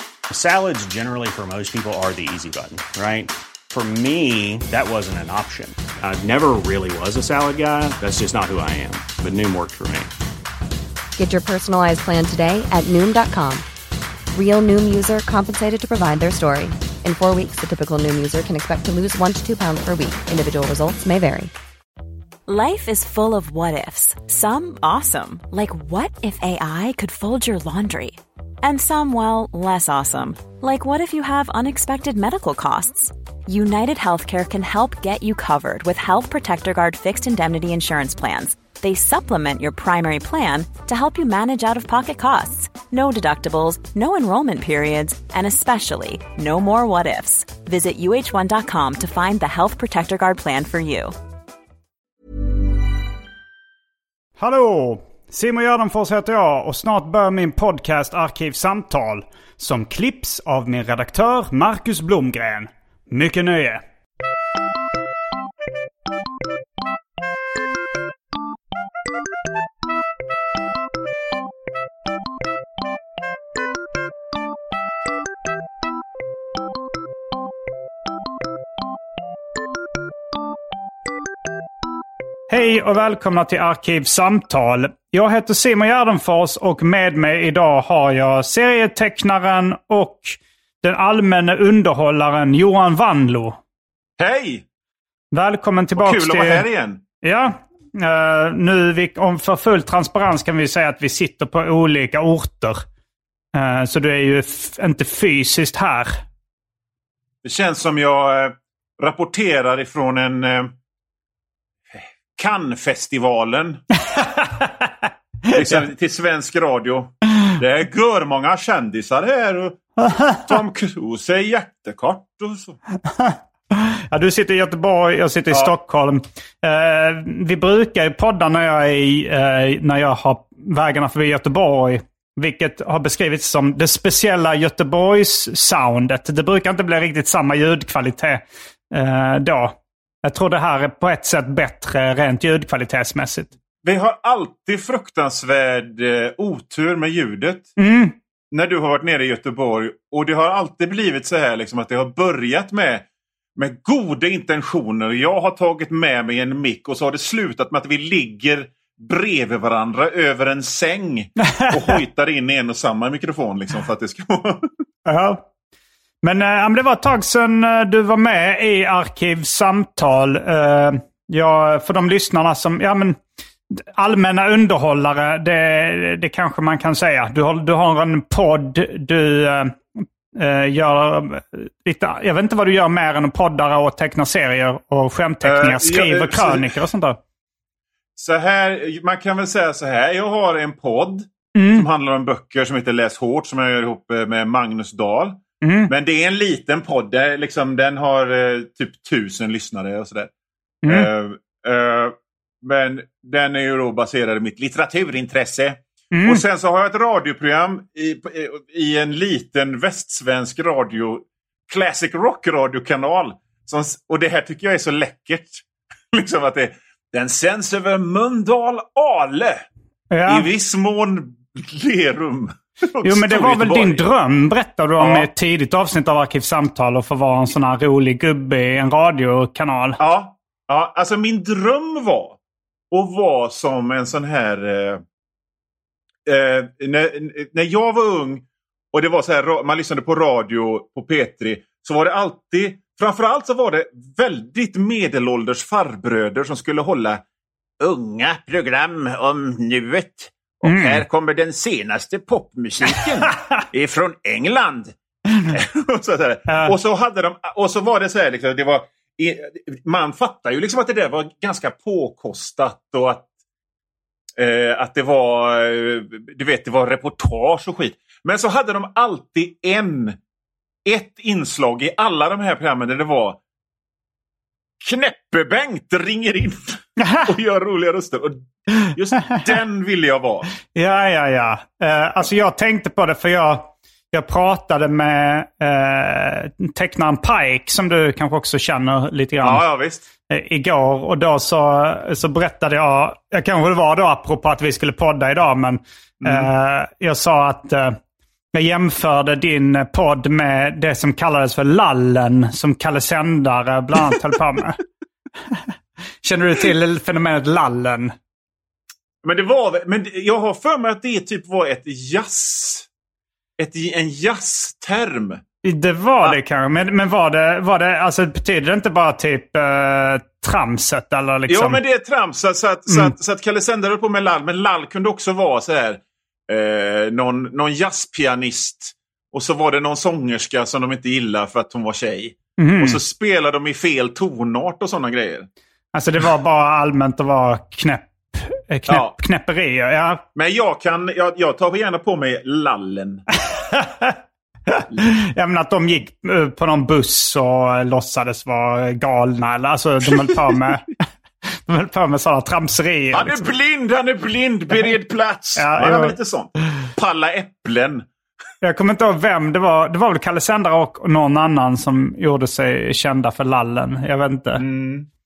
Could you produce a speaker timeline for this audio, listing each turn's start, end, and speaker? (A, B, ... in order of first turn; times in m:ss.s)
0:00.3-0:10.1 A
0:11.2-0:13.6 B
0:14.3-0:21.5 B
0:22.5-0:51.1 C
0:54.4-1:03.8 D
1:22.5-1:33.6 D
1:34.2-1:34.6 E
1:35.3-1:36.7 D
1:36.0-1:37.0 E
1:37.2-1:42.8 D
1:43.6-1:46.2 D
1:47.4-1:50.7 E
1:52.4-1:53.8 E
1:54.2-1:54.9 D
1:55.5-1:55.8 D
1:55.5-2:02.8 E
2:00.0-2:00.5 D
2:03.0-2:23.5 D
2:23.8-2:27.7 E
2:27.8-2:28.2 D
2:28.5-2:44.7 E
2:41.5-2:42.0 D
2:45.1-2:45.5 D
2:46.2-2:53.2 D
2:53.7-3:07.2 D
3:05.4-3:06.8 E
3:08.2-3:20.3 E
3:11.6-3:11.9 D
3:15.6-3:15.9 D
3:20.9-3:39.7 E
3:26.1-3:26.4 D
3:40.1-3:40.5 D
3:40.3-3:44.0 E
3:43.0-3:50.0 D
3:45.0-3:45.3 E
3:50.0-3:52.4 E
3:52.9-3:55.0 E
3:56.3-4:07.2 E
4:07.8-4:23.3 E
4:10.6-4:11.0 D
4:16.5-4:16.7 D
4:24.4-4:30.2 E
4:30.8-4:33.4 E
4:34.8-4:40.5 E
4:37.0-4:37.3 D
4:40.7-4:49.6 D
4:49.4-4:50.0 E
4:50.3-4:58.0 D
4:56.2-4:56.5 E
4:58.5-5:04.8 D
5:06.2-5:08.2 D
5:09.2-5:12.9 E
5:13.6-5:15.4 E
5:15.6-5:21.8 D
5:21.5-5:35.5 E
5:22.9-5:23.2 D
5:32.6-5:33.0 D
5:35.9-5:40.2 D
5:38.9-5:39.1 E
5:40.4-5:43.2 E
5:43.7-5:44.2 D
5:44.8-5:50.9 D
5:50.3-5:50.6 E
5:51.5-5:53.4 D
5:53.1-5:58.1 E
5:55.6-5:56.2 D
5:58.6-6:04.6 D
6:04.6-6:05.1 E